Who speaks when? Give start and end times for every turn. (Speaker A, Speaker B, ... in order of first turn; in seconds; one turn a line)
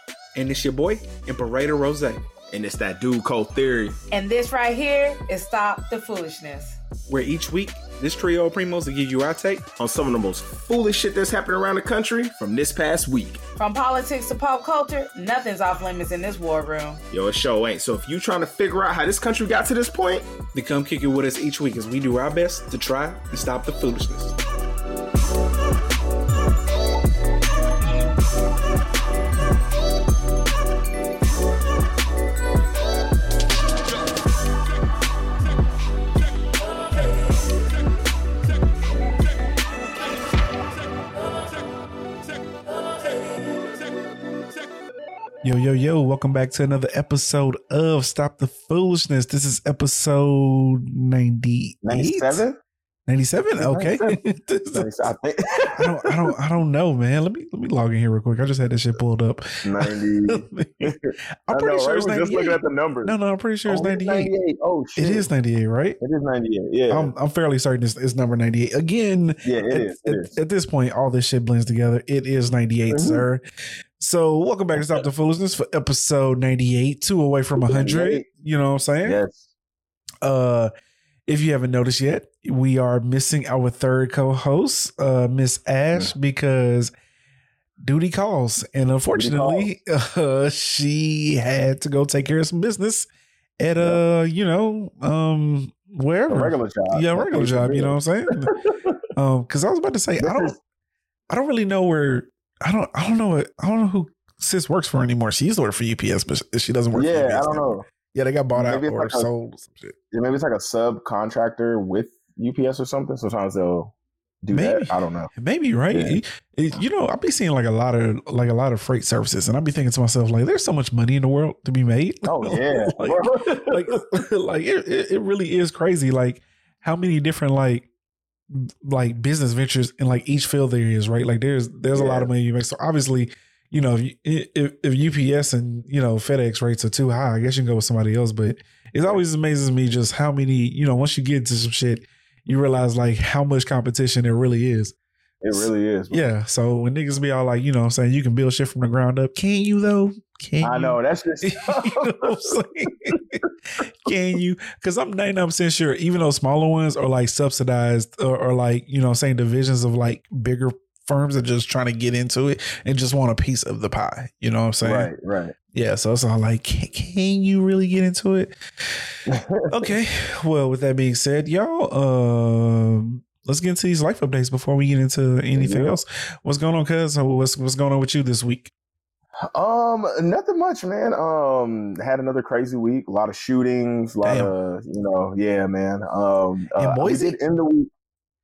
Speaker A: 0.3-2.2
Speaker B: 2.5-4.0
Speaker C: 4.1-6.8
Speaker A: 7.1-9.7
Speaker B: 9.8-13.4
Speaker C: 13.6-17.0
Speaker B: 17.1-20.3
Speaker A: 20.5-24.3
Speaker A: 45.4-52.4
Speaker B: 51.8-52.6
Speaker A: 53.1-54.9
Speaker B: 53.6-54.2
Speaker B: 54.7-56.3
Speaker A: 55.8-60.9
Speaker B: 59.6-63.1
Speaker A: 61.5-64.3
Speaker B: 63.7-65.3
Speaker A: 65.0-66.0
Speaker B: 66.0-67.1
Speaker A: 66.9-73.4
Speaker B: 69.5-70.3
Speaker B: 72.9-73.2
Speaker A: 74.0-79.2
Speaker B: 77.6-78.3
Speaker B: 79.0-79.5
Speaker A: 80.2-80.7
Speaker A: 81.3-86.9
Speaker A: 87.8-93.1
Speaker B: 89.1-89.7
Speaker A: 93.6-98.5
Speaker B: 96.3-99.0
Speaker A: 99.2-100.5
Speaker B: 100.2-100.6
Speaker A: 101.3-110.0
Speaker B: 106.9-107.8
Speaker B: 108.5-109.3
Speaker B: 110.1-115.3
Speaker A: 114.5-127.9
Speaker B: 115.9-116.2
Speaker B: 122.3-124.0
Speaker A: 128.5-144.9
Speaker B: 131.9-132.3
Speaker B: 145.4-146.3
Speaker A: 145.5-153.3
Speaker B: 150.6-152.6
Speaker A: 154.1-165.1
Speaker B: 164.8-165.6
Speaker A: 165.7-169.1
Speaker B: 169.3-169.7
Speaker A: 169.7-178.7
Speaker B: 175.5-176.0
Speaker B: 179.5-187.9
Speaker A: 184.2-184.5
Speaker A: 186.8-187.4